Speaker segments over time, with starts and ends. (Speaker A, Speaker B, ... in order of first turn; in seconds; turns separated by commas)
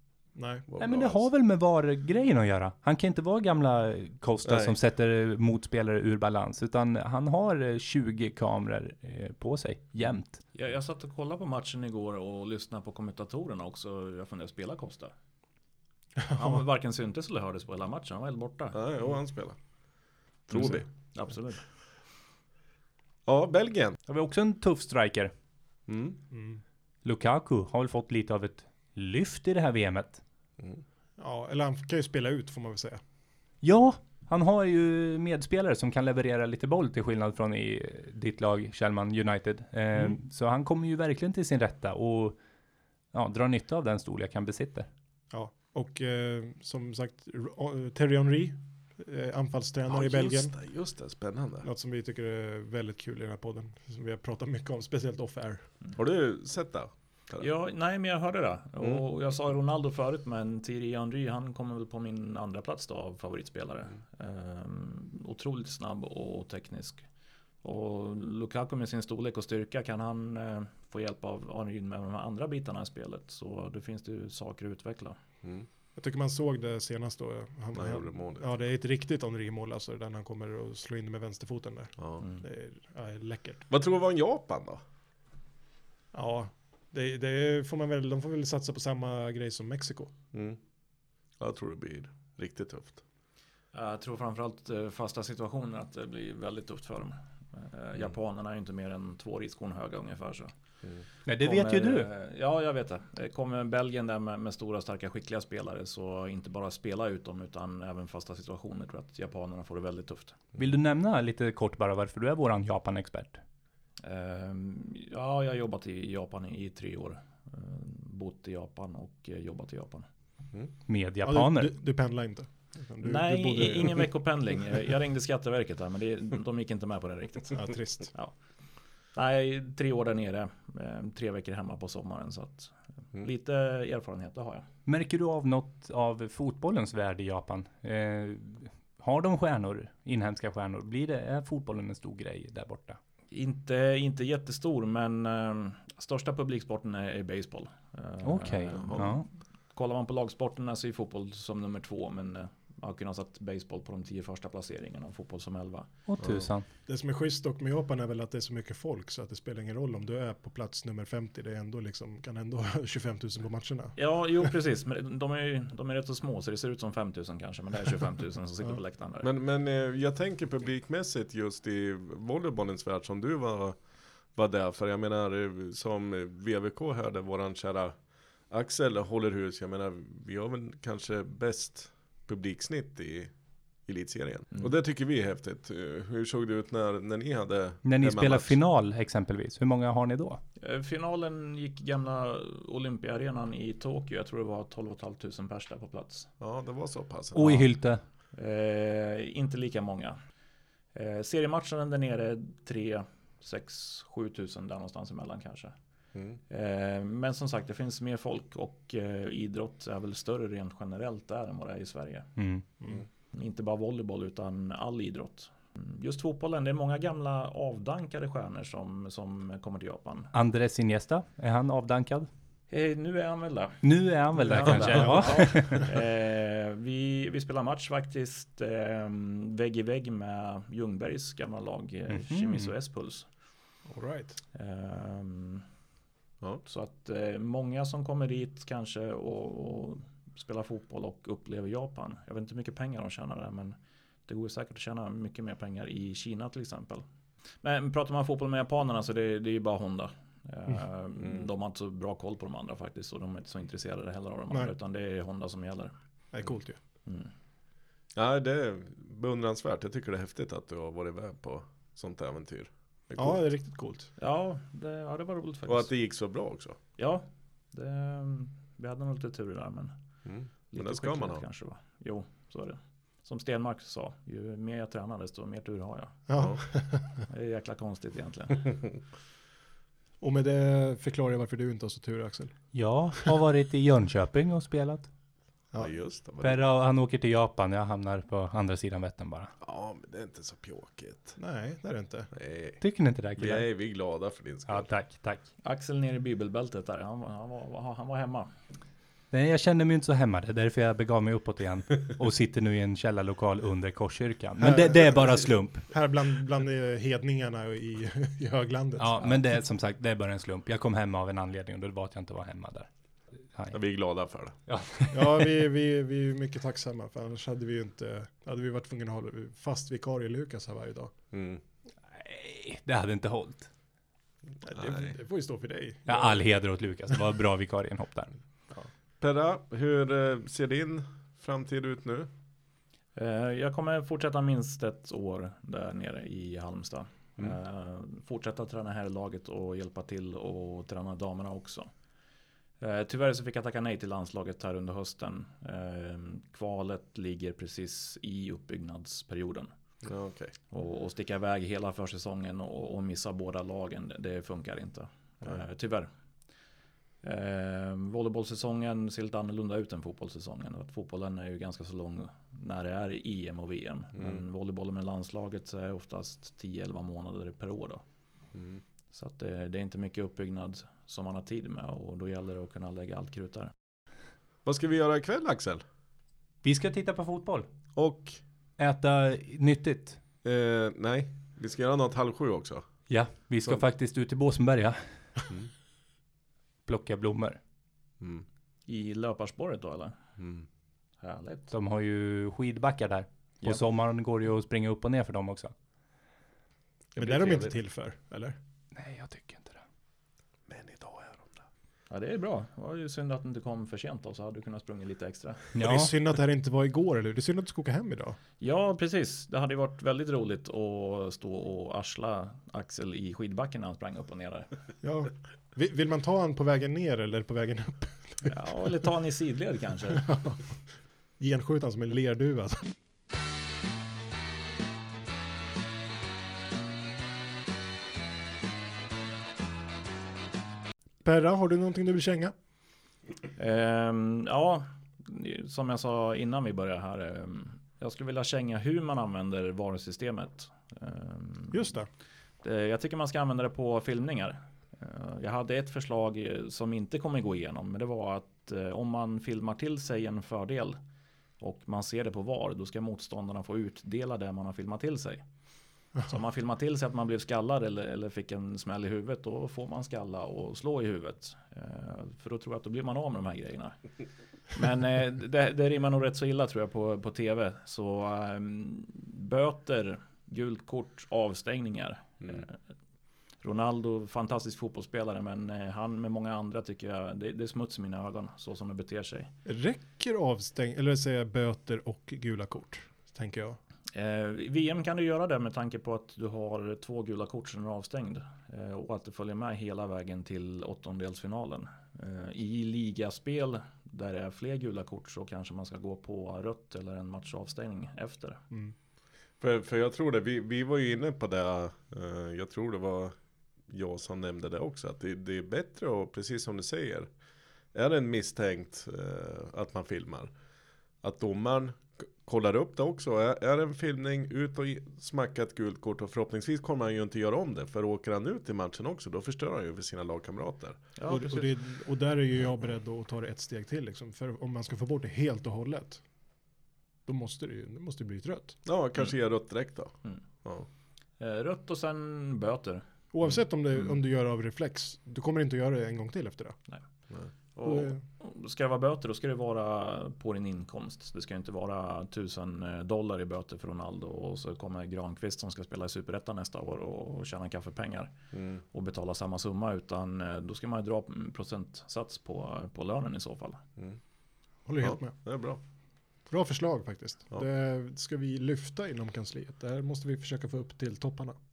Speaker A: 0.3-0.7, Speaker B: 0.7-1.3, Speaker C: 0.8-10.4, Speaker B: 4.5-4.8, Speaker D: 10.6-15.1, Speaker A: 16.2-16.6, Speaker D: 16.4-18.8, Speaker B: 18.7-19.6, Speaker B: 20.5-20.9, Speaker D: 20.6-21.6, Speaker B: 23.3-24.0, Speaker C: 24.1-25.3, Speaker B: 25.9-26.2, Speaker A: 26.3-26.6, Speaker C: 27.0-30.2, Speaker A: 31.2-33.0, Speaker C: 33.6-42.4, Speaker C: 43.1-44.9, Speaker A: 45.3-50.5, Speaker B: 49.9-51.7, Speaker A: 51.6-55.6, Speaker B: 56.0-57.5, Speaker D: 57.4-67.0, Speaker D: 67.6-75.2, Speaker A: 76.0-83.7, Speaker B: 77.8-78.5, Speaker B: 83.7-84.8, Speaker A: 86.1-90.1, Speaker B: 90.3-90.6, Speaker B: 91.4-93.0, Speaker D: 93.7-100.5, Speaker C: 101.3-102.1, Speaker D: 101.4-110.4, Speaker C: 110.6-113.4, Speaker D: 114.0-120.1, Speaker C: 120.9-121.8, Speaker A: 121.2-124.1, Speaker D: 123.0-128.3, Speaker A: 127.5-128.1, Speaker D: 129.1-134.7, Speaker C: 134.9-143.0, Speaker D: 143.3-149.2, Speaker C: 148.2-149.3, Speaker B: 148.7-149.1, Speaker D: 149.7-155.9, Speaker C: 156.1-156.7, Speaker B: 156.2-156.5, Speaker A: 156.9-164.5, Speaker D: 164.0-169.3, Speaker B: 169.2-173.8, Speaker B: 174.3-177.9, Speaker B: 178.5-183.3, Speaker B: 183.9-188.6, Speaker C: 187.8-190.4, Speaker D: 190.6-196.3, Speaker B: 196.4-197.7, Speaker C: 197.3-198.0, Speaker D: 198.3-200.2, Speaker D: 200.9-205.7, Speaker D: 206.5-212.3, Speaker C: 212.4-212.6, Speaker D: 213.3-220.3, Speaker C: 220.3-222.3, Speaker D: 222.7-223.8, Speaker C: 223.8-225.8, Speaker D: 224.4-233.3, Speaker A: 224.5-225.9, Speaker C: 232.1-232.7, Speaker A: 233.9-234.4, Speaker D: 234.5-235.7, Speaker D: 236.7-243.8, Speaker D: 244.3-247.1, Speaker D: 247.6-255.9, Speaker B: 251.2-251.5, Speaker A: 256.3-256.8, Speaker D: 257.1-257.3, Speaker B: 258.1-263.4, Speaker A: 263.2-264.1, Speaker D: 264.2-265.9, Speaker B: 265.7-266.8, Speaker D: 267.0-269.9, Speaker B: 270.3-271.4, Speaker D: 270.7-276.4, Speaker A: 276.3-277.2, Speaker D: 277.3-278.8, Speaker A: 280.2-282.6, Speaker C: 282.7-285.1, Speaker B: 285.8-286.6, Speaker C: 286.4-289.5, Speaker B: 289.6-291.4, Speaker A: 291.4-292.3, Speaker B: 292.3-292.8, Speaker C: 292.8-293.6, Speaker B: 293.4-294.9, Speaker C: 294.7-295.5, Speaker D: 295.6-298.5, Speaker C: 299.3-305.9, Speaker A: 304.6-309.4, Speaker C: 309.0-312.9, Speaker B: 313.7-314.6, Speaker C: 314.7-315.5, Speaker A: 315.1-321.1, Speaker B: 321.3-321.6, Speaker C: 322.1-323.7, Speaker A: 324.6-326.4, Speaker B: 324.7-325.1, Speaker C: 326.1-328.4, Speaker B: 329.2-332.3, Speaker D: 333.2-341.9, Speaker D: 342.8-349.7, Speaker B: 350.0-350.6, Speaker D: 350.7-356.1, Speaker D: 357.2-368.0, Speaker B: 364.2-364.4, Speaker B: 368.5-368.8, Speaker D: 369.1-373.7, Speaker B: 374.6-375.8, Speaker C: 376.6-377.7, Speaker B: 378.0-378.4, Speaker C: 378.8-380.2, Speaker B: 380.4-382.9, Speaker C: 383.1-385.0, Speaker C: 386.9-387.6, Speaker D: 388.9-390.2, Speaker B: 390.4-390.7, Speaker D: 391.2-391.7, Speaker C: 391.7-395.7, Speaker B: 397.1-397.7, Speaker A: 397.2-398.6, Speaker C: 398.9-399.8, Speaker B: 400.7-401.6, Speaker D: 402.1-405.7, Speaker C: 405.8-406.1, Speaker A: 405.8-408.4, Speaker D: 408.6-414.7, Speaker A: 415.0-418.5, Speaker D: 418.4-420.2, Speaker A: 420.1-420.7, Speaker A: 421.4-422.9, Speaker A: 431.2-432.5, Speaker D: 433.6-441.9, Speaker A: 441.7-442.1, Speaker D: 442.6-451.0, Speaker D: 451.6-455.4, Speaker D: 456.2-464.0, Speaker D: 464.7-472.8, Speaker D: 473.6-479.5, Speaker A: 479.7-483.8, Speaker D: 484.1-498.6, Speaker B: 499.6-503.3, Speaker B: 503.9-507.3, Speaker B: 507.9-510.5, Speaker B: 511.2-521.0, Speaker D: 521.2-521.7, Speaker A: 521.3-526.2, Speaker A: 527.3-528.8, Speaker B: 528.9-530.1, Speaker D: 531.4-533.0, Speaker A: 533.3-536.8, Speaker D: 537.8-548.3, Speaker A: 537.8-538.2, Speaker B: 548.5-548.8, Speaker D: 548.9-553.8, Speaker A: 554.9-555.4, Speaker B: 555.0-555.8, Speaker A: 556.5-561.6